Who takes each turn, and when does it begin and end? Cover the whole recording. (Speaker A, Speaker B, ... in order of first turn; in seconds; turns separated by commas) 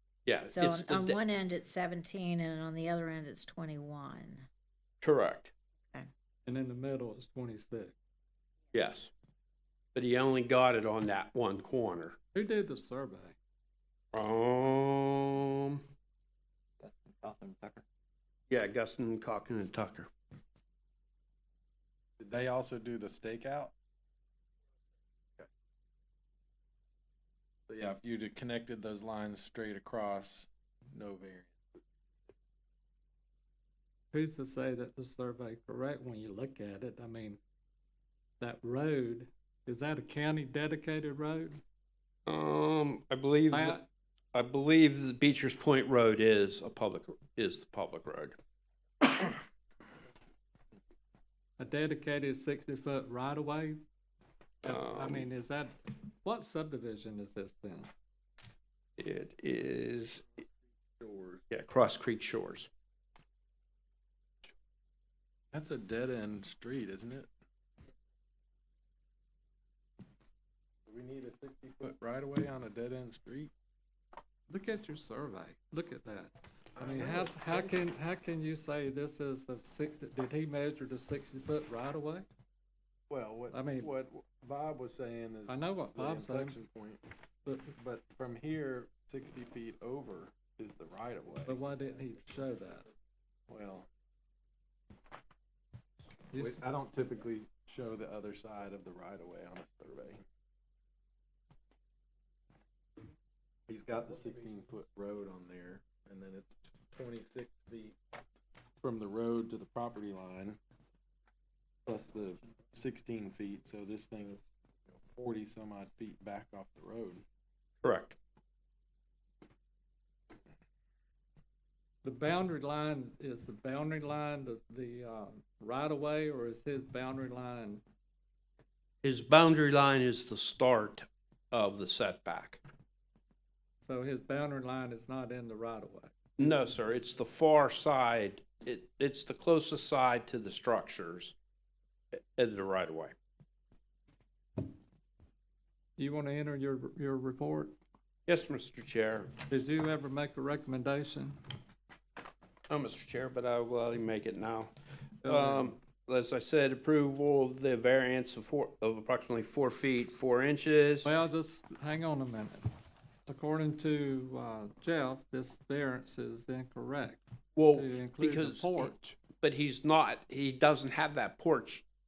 Speaker A: 0.2-1.2, Speaker B: 0.5-4.5, Speaker A: 5.0-5.5, Speaker C: 6.5-7.9, Speaker A: 8.7-9.1, Speaker A: 9.9-12.2, Speaker C: 12.3-13.3, Speaker A: 14.1-15.8, Speaker C: 16.8-17.8, Speaker A: 18.5-20.1, Speaker D: 22.2-23.7, Speaker D: 27.7-31.7, Speaker C: 34.1-37.4, Speaker C: 38.4-41.6, Speaker A: 42.2-43.8, Speaker C: 43.5-43.8, Speaker A: 44.3-48.4, Speaker A: 49.1-49.3, Speaker C: 51.6-53.8, Speaker C: 54.6-57.9, Speaker A: 54.6-55.2, Speaker A: 59.0-60.2, Speaker D: 60.4-61.4, Speaker A: 61.5-62.7, Speaker D: 65.5-67.3, Speaker D: 70.8-73.5, Speaker C: 74.5-82.3, Speaker D: 76.8-77.8, Speaker D: 83.1-87.0, Speaker C: 83.5-83.9, Speaker C: 85.5-86.6, Speaker C: 87.4-87.7, Speaker D: 87.8-91.7, Speaker C: 91.5-92.9, Speaker D: 93.5-93.9, Speaker C: 96.3-96.6, Speaker D: 96.3-100.2, Speaker D: 103.7-108.0, Speaker D: 108.8-110.6, Speaker D: 111.8-117.2, Speaker A: 117.8-118.2, Speaker C: 122.0-127.8, Speaker A: 129.0-132.6, Speaker C: 133.8-136.1, Speaker A: 136.4-141.3, Speaker A: 142.1-143.1, Speaker C: 146.0-147.8, Speaker A: 148.3-149.3, Speaker C: 149.5-151.4, Speaker A: 152.7-154.7, Speaker A: 155.2-161.1, Speaker C: 155.2-155.8, Speaker C: 161.0-162.7, Speaker C: 163.3-169.2, Speaker A: 167.6-171.8